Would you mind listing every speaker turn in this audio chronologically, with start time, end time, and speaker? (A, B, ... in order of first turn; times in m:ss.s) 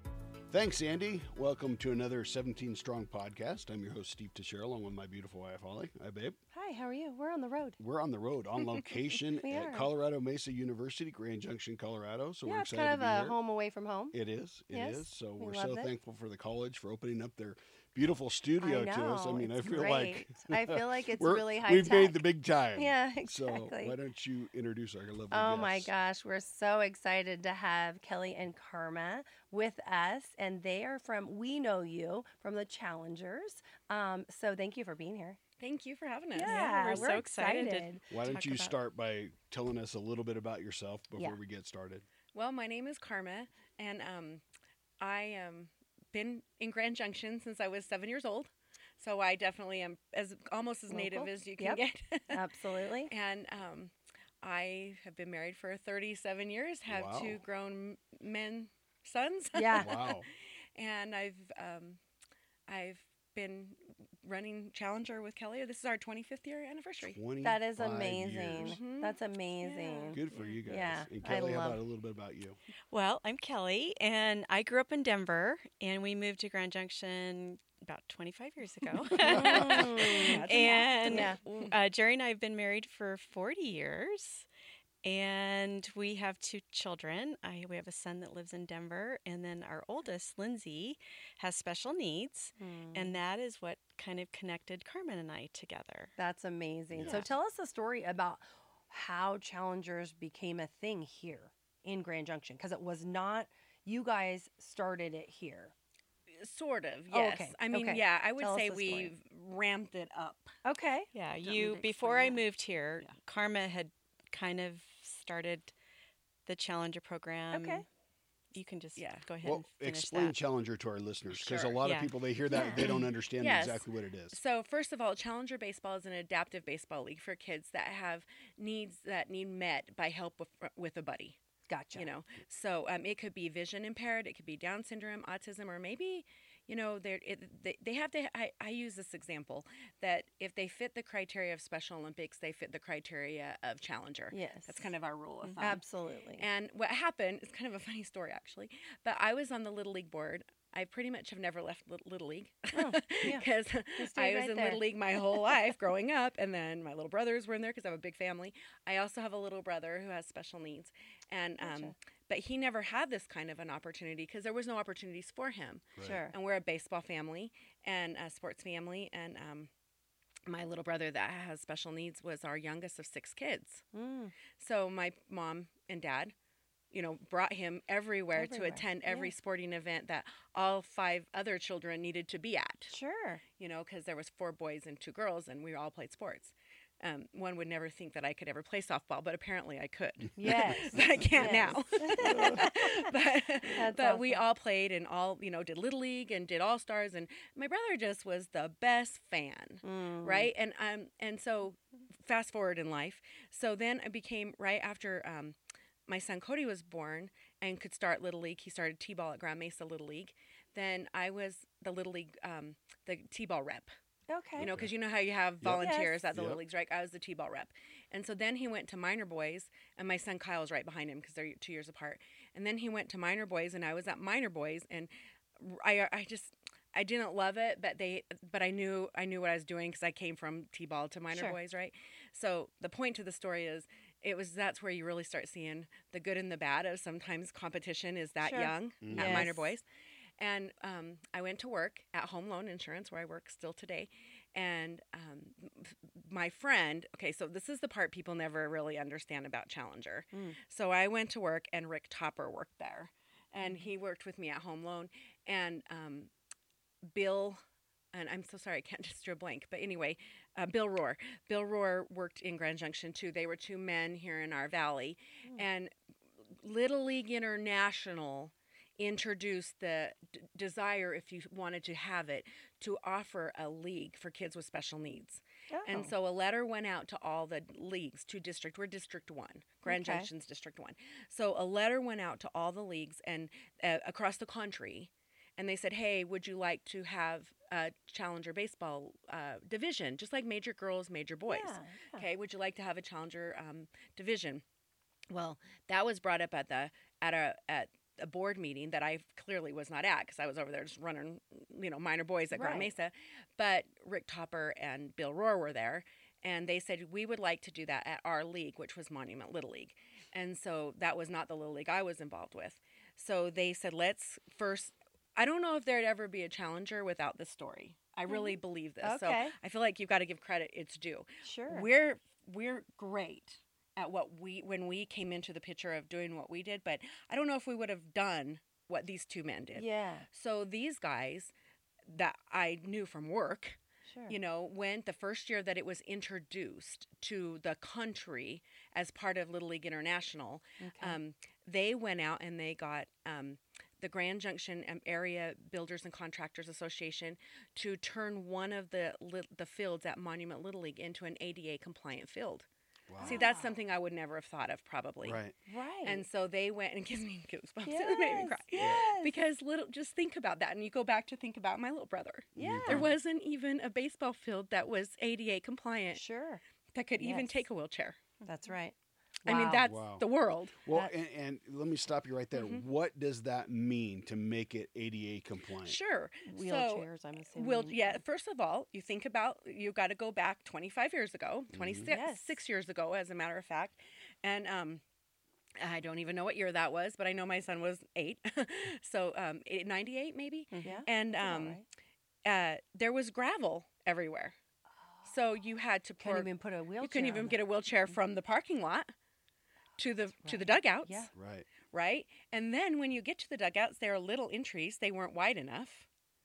0:00.5-0:06.4 A
0:06.5-0:07.8 B
0:07.8-0:13.4 A
0:09.4-0:09.9 B
0:12.4-0:14.2 B
0:14.1-0:25.9 A
0:14.7-0:15.9 B
0:18.6-0:24.0 B
0:25.3-0:35.4 B
0:35.6-0:37.2 C
0:36.3-0:38.7 B
0:36.4-0:38.7 D
0:38.1-0:42.1 A
0:42.3-0:44.4 C
0:45.0-0:52.5 C
0:50.9-0:53.1 B
0:53.1-1:00.2 C
0:56.9-0:57.4 A
0:59.6-0:59.9 B
0:59.7-1:00.3 A
1:00.8-1:02.0 C
1:02.7-1:07.2 C
1:07.0-1:08.8 A
1:07.4-1:11.8 B
1:08.6-1:10.6 C
1:10.1-1:12.6 A
1:12.9-1:24.5 D
1:19.1-1:21.7 C
1:19.2-1:20.4 B
1:21.0-1:21.4 B
1:25.0-1:36.2 D
1:32.6-1:33.2 B
1:36.2-1:45.7 B
1:36.9-1:37.3 A
1:46.4-1:50.6 C
1:47.1-1:49.1 B
1:50.6-1:51.1 B
1:51.1-1:55.8 D
1:51.4-1:52.4 C
1:56.5-1:57.9 D
1:57.5-1:57.8 B
1:58.5-2:00.4 D
1:59.0-1:59.3 C
1:59.4-2:04.4 A
2:01.3-2:01.8 C
2:01.8-2:02.1 D
2:02.5-2:02.9 B
2:02.6-2:11.4 C
2:11.7-2:12.1 B
2:11.9-2:25.8 C
2:24.3-2:24.9 B
2:25.6-2:26.4 B
2:26.4-2:49.7 C
2:32.7-2:33.5 B
2:34.0-2:35.6 B
2:41.6-2:42.0 B
2:46.0-2:46.3 B
2:50.5-2:53.8 C
2:53.9-2:54.3 B
2:54.6-2:56.3 C
2:56.9-3:03.0 C
2:58.4-2:59.3 B
3:02.9-3:03.4 B
3:03.6-3:25.6 C
3:10.4-3:14.4 B
3:11.4-3:12.6 A
3:19.8-3:20.5 B
3:26.1-3:33.9 C
3:34.3-3:34.7 B
3:34.6-3:34.9 A
3:34.6-3:59.8 C
3:35.6-3:36.6 A
3:35.8-3:36.2 B
3:51.3-3:51.6 B
3:58.4-3:59.7 B
3:59.0-3:59.5 A
4:00.4-4:16.3 C
4:10.3-4:10.6 B
4:13.6-4:13.9 B
4:17.1-4:17.6 C
4:18.1-4:25.9 C
4:26.5-4:54.6 C
4:35.7-4:36.1 B
4:39.9-4:40.3 B
4:51.5-4:52.2 B
4:55.3-5:31.5 C
5:02.5-5:02.9 B
5:18.3-5:19.6 B
5:21.4-5:21.9 B
5:29.8-5:30.3 B
5:32.1-5:33.8 C
5:34.1-5:34.4 B
5:34.3-5:52.7 C
5:40.8-5:41.2 B
5:53.1-5:53.4 A
5:53.2-5:55.4 C
5:53.2-5:53.8 B
5:55.2-5:55.6 A
5:55.7-5:56.2 B
5:56.0-6:06.2 C
5:57.8-5:59.3 B
5:58.8-5:59.1 A
6:02.6-6:03.1 A
6:02.6-6:03.1 B
6:06.1-6:06.6 B
6:06.9-6:08.2 C
6:07.2-6:07.6 B
6:08.4-6:09.9 B
6:09.5-6:10.8 C
6:09.8-6:10.3 A
6:10.8-6:16.0 A
6:10.9-6:11.1 B
6:12.5-6:12.8 C
6:15.8-6:25.0 C
6:16.5-6:18.2 B
6:21.7-6:22.1 A
6:22.1-6:22.6 B
6:25.8-6:31.8 C
6:30.7-6:31.0 D
6:30.8-6:31.8 B
6:32.4-6:34.6 C
6:35.2-6:36.5 C
6:36.2-6:37.6 B
6:37.0-6:39.1 C
6:40.0-6:41.3 C
6:40.4-6:41.3 B
6:41.3-6:41.7 A
6:41.9-6:46.1 C